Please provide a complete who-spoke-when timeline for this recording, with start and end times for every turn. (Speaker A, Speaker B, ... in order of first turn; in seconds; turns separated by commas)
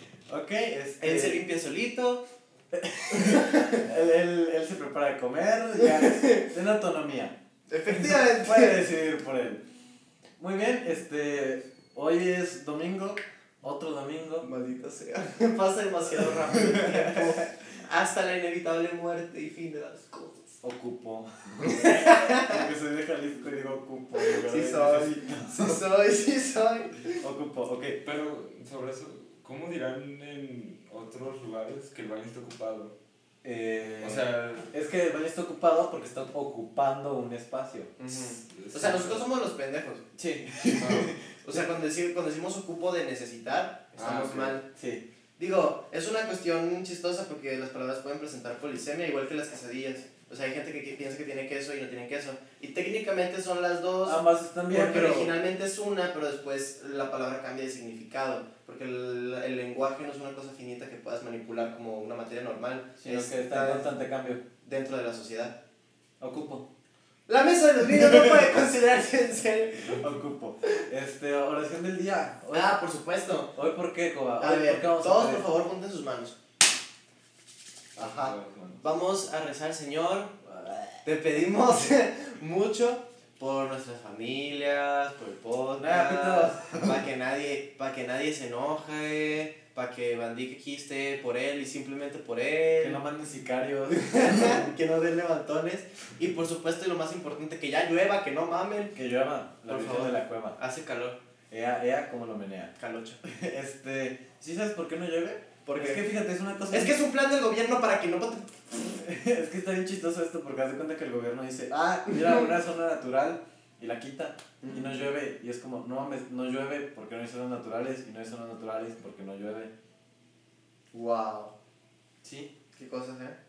Speaker A: 0.3-1.4, Speaker B: 1.0-2.2, Speaker A: 2.7-7.3, Speaker B: 3.1-3.8, Speaker B: 5.8-6.4, Speaker B: 7.7-8.8, Speaker A: 7.9-9.6, Speaker A: 10.4-14.5, Speaker B: 14.4-20.6, Speaker A: 16.6-17.4, Speaker A: 20.6-25.8, Speaker B: 21.7-22.6, Speaker B: 24.2-27.2, Speaker A: 27.2-28.0, Speaker C: 28.0-32.9, Speaker A: 33.4-37.9, Speaker C: 34.0-34.7, Speaker B: 38.0-40.1, Speaker C: 38.1-39.3, Speaker A: 40.2-41.2, Speaker C: 40.8-41.1, Speaker B: 41.4-44.6, Speaker C: 44.0-44.6, Speaker A: 44.7-45.0, Speaker B: 45.4-63.9, Speaker A: 54.0-55.3, Speaker A: 63.0-64.4, Speaker B: 64.6-65.5, Speaker A: 66.2-66.7, Speaker B: 67.3-69.9, Speaker A: 69.8-72.7, Speaker B: 72.5-73.5, Speaker A: 73.5-75.5, Speaker B: 74.4-76.4, Speaker C: 78.0-78.8, Speaker A: 78.0-78.3, Speaker B: 78.8-80.4, Speaker A: 80.5-81.0, Speaker B: 81.0-93.0, Speaker A: 85.8-86.9, Speaker A: 92.8-94.6, Speaker B: 93.9-98.9, Speaker A: 98.9-100.6, Speaker B: 99.7-101.2, Speaker A: 101.5-107.0, Speaker B: 102.8-103.2, Speaker B: 105.7-106.0, Speaker B: 106.7-108.5, Speaker A: 108.9-119.7, Speaker B: 112.1-112.5, Speaker B: 114.6-115.0, Speaker B: 120.9-121.5, Speaker A: 122.2-122.5, Speaker B: 122.8-123.4